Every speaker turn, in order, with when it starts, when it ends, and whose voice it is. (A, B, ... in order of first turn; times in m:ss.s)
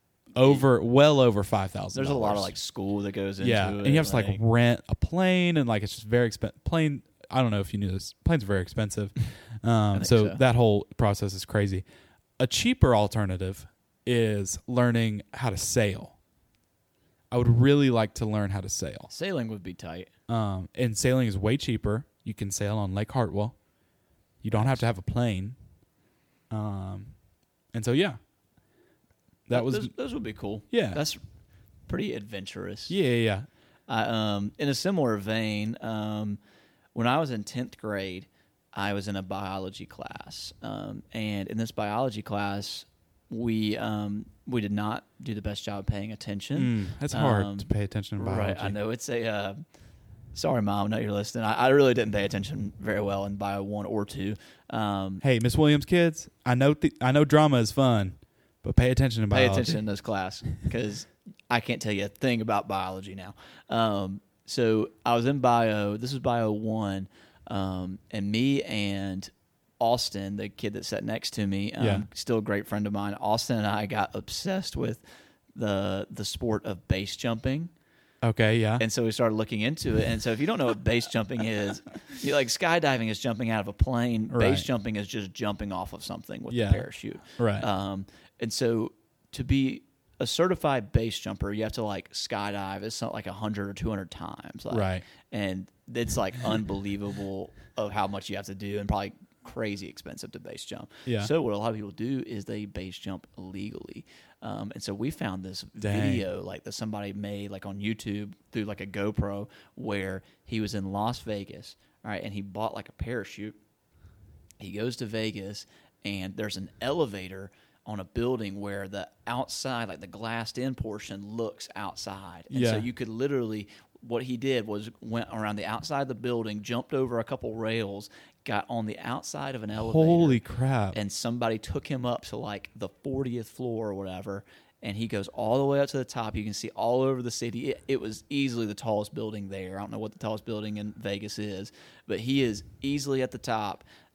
0:00.4-0:02.5 A
0:00.4-0:00.6 B
0:01.9-0:04.4 B
0:03.4-0:11.8 A
0:09.9-0:10.4 B
0:12.4-0:16.2 A
0:17.3-0:19.1 A
0:19.1-0:20.1 B
0:20.3-0:23.6 A
0:24.4-0:25.6 A
0:24.5-0:24.8 B
0:26.5-0:27.1 A
0:27.7-0:28.2 A
0:29.5-0:29.9 A
0:29.5-0:31.2 B
0:30.7-0:31.0 A
0:31.9-0:33.0 B
0:32.9-0:33.5 A
0:33.9-0:36.4 B
0:37.0-0:49.6 B
0:46.6-0:48.8 A
0:50.3-0:55.2 B
0:55.2-0:59.8 A
0:59.3-1:15.0 B
1:11.8-1:12.1 A
1:15.6-1:17.7 B
1:18.2-1:18.8 A
1:18.8-1:53.6 B
1:24.3-1:24.7 A
1:26.5-1:27.7 A
1:34.7-1:35.1 A
1:41.1-1:41.3 A
1:45.8-1:46.3 A
1:54.6-2:10.4 B
2:02.5-2:02.9 A
2:09.8-2:11.0 A
2:10.9-2:23.8 B